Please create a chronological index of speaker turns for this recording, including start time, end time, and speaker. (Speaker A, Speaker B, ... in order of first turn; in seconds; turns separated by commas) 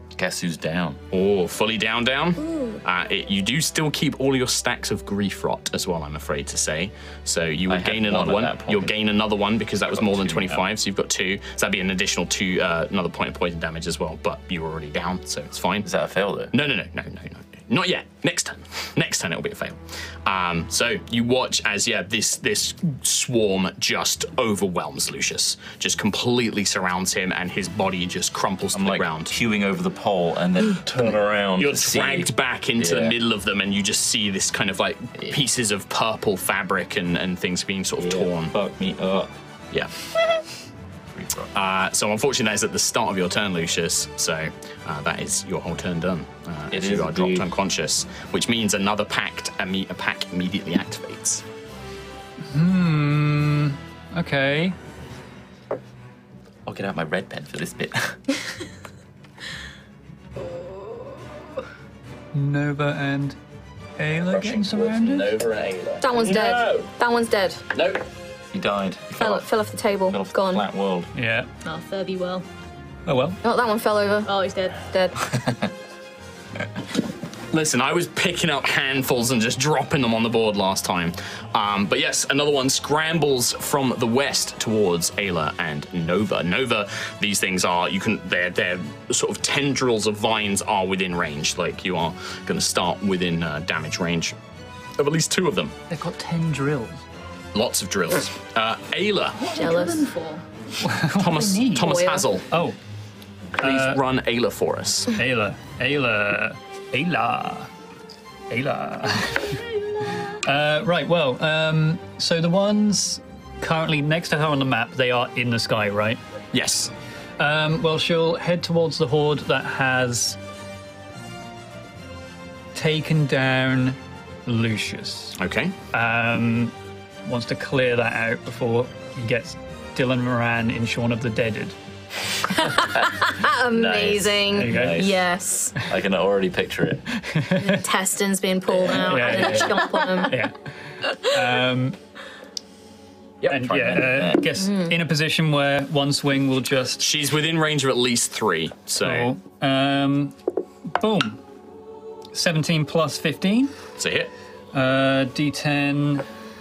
Speaker A: 0.1-1.0, Speaker B: 1.1-15.9, Speaker C: 2.4-2.8, Speaker A: 7.7-9.0, Speaker A: 9.9-10.7, Speaker A: 15.8-16.5, Speaker B: 16.5-29.3, Speaker A: 28.7-33.2, Speaker B: 31.6-38.5, Speaker A: 38.0-39.3, Speaker A: 41.1-41.5, Speaker B: 41.5-51.5, Speaker A: 46.7-47.5, Speaker D: 52.5-54.8, Speaker A: 56.7-58.3, Speaker D: 62.3-63.4, Speaker D: 64.0-65.4, Speaker B: 64.2-66.9, Speaker C: 66.0-67.7, Speaker B: 67.7-68.0, Speaker A: 68.5-69.5, Speaker C: 69.2-70.6, Speaker A: 70.1-71.1, Speaker D: 71.1-71.5, Speaker E: 71.6-72.5, Speaker D: 73.1-73.4, Speaker C: 73.4-75.3, Speaker E: 74.2-74.8, Speaker A: 75.3-75.7, Speaker B: 77.5-94.3, Speaker B: 95.0-95.8, Speaker D: 95.9-97.0, Speaker B: 97.5-99.4, Speaker E: 99.4-100.4, Speaker C: 99.6-100.1, Speaker D: 100.8-102.8, Speaker B: 101.1-102.5, Speaker C: 101.7-102.3, Speaker D: 103.6-104.0, Speaker B: 103.6-105.1, Speaker D: 105.1-107.7, Speaker D: 108.5-116.2, Speaker B: 116.5-116.9, Speaker D: 117.4-120.4, Speaker D: 122.8-125.4, Speaker B: 125.4-125.8, Speaker D: 125.9-126.7, Speaker D: 127.2-131.8, Speaker C: 132.6-135.8, Speaker A: 133.7-135.3, Speaker D: 134.5-135.0, Speaker A: 135.8-137.1, Speaker D: 137.3-137.8, Speaker C: 137.6-140.4, Speaker D: 139.0-142.0, Speaker B: 143.4-143.8, Speaker D: 143.5-147.1, Speaker A: 143.5-144.5, Speaker C: 144.6-144.9, Speaker B: 147.0-149.3, Speaker D: 149.0-150.4, Speaker D: 150.9-151.4, Speaker D: 152.3-153.7, Speaker B: 154.0-154.3, Speaker D: 154.7-156.3